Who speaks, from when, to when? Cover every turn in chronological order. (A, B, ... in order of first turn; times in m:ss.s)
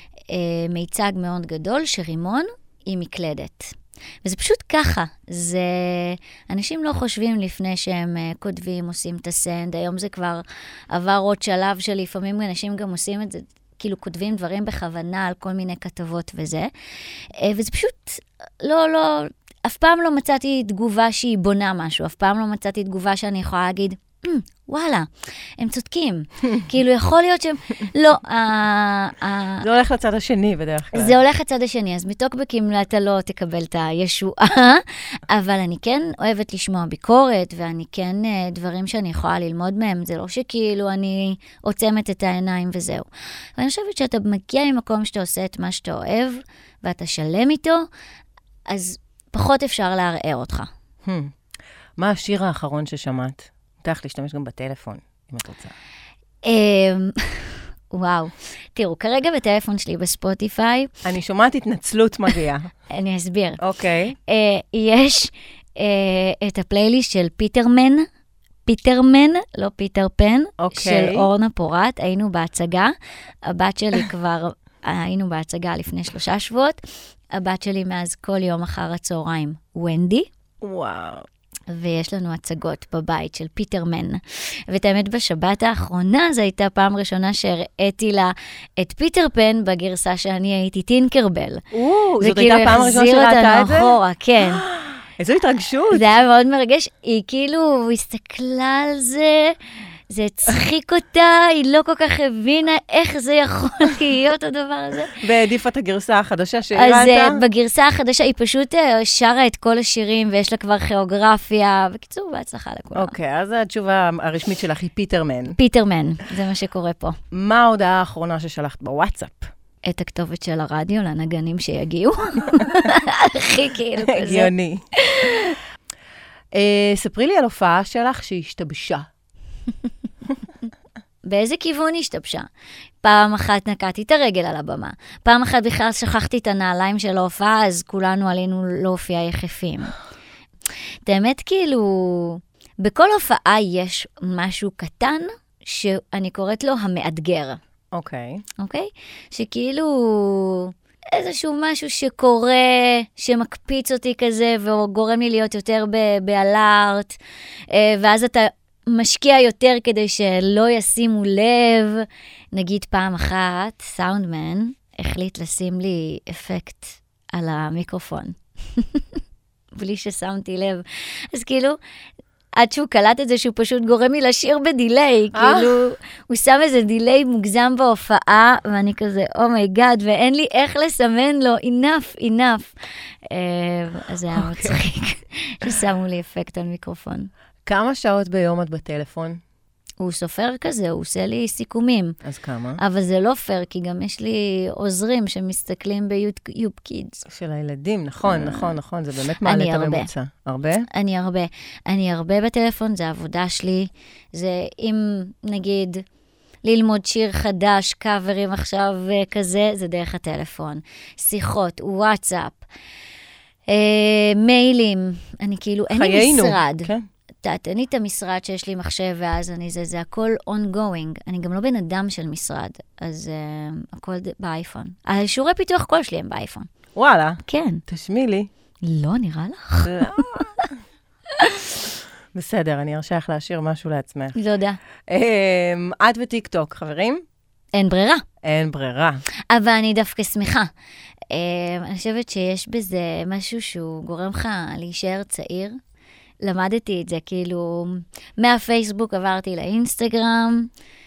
0:00.3-0:16.7 A
0:17.3-0:29.7 A
0:29.6-0:31.2 B
0:30.9-0:47.9 A
0:48.7-0:50.7 A
0:51.0-0:51.3 B
0:52.0-0:55.8 B
0:56.4-1:00.9 A
1:01.0-1:02.7 B
1:02.9-1:03.6 A
1:03.6-1:04.2 B
1:04.3-1:08.1 A
1:08.7-1:12.9 A
1:10.6-1:11.3 B
1:13.5-1:16.8 A
1:17.3-1:20.3 A
1:20.6-1:21.3 B
1:21.7-1:31.6 A
1:31.7-1:36.1 B
1:32.2-1:34.6 A
1:35.9-1:39.6 A
1:40.1-1:45.2 A
1:45.2-1:47.4 B
1:46.8-1:53.2 A
1:53.0-1:55.6 B
1:55.5-1:57.2 A
1:57.3-1:59.5 B
1:59.8-2:05.6 A
2:04.0-2:04.8 B
2:06.5-2:09.1 B
2:11.3-2:12.5 A
2:13.0-2:20.0 A
2:21.1-2:27.6 A
2:27.9-2:28.4 B
2:28.6-2:37.2 A
2:37.7-2:49.2 A
2:49.8-2:51.8 A
2:52.6-3:02.7 A
2:55.3-2:55.8 B
3:03.3-3:07.3 A
3:04.3-3:04.8 B
3:07.7-3:09.4 B
3:10.0-3:12.2 A
3:12.2-3:12.8 B
3:12.8-3:17.3 A
3:17.3-3:20.9 B
3:18.3-3:18.8 A
3:19.4-3:20.1 A
3:20.9-3:26.0 A
3:26.6-3:32.6 A
3:33.7-3:36.9 A
3:35.9-3:37.1 B
3:37.4-3:46.7 A
3:47.0-3:48.5 B
3:47.5-3:47.8 A
3:48.8-3:50.7 A
3:49.8-3:50.4 B
3:51.4-3:51.7 A
3:52.3-3:54.4 B
3:54.4-3:54.8 A
3:55.1-3:57.2 B
3:57.7-3:58.2 A
3:58.4-3:59.2 B
3:59.5-4:00.7 A
4:01.3-4:05.8 A
4:06.4-4:10.7 A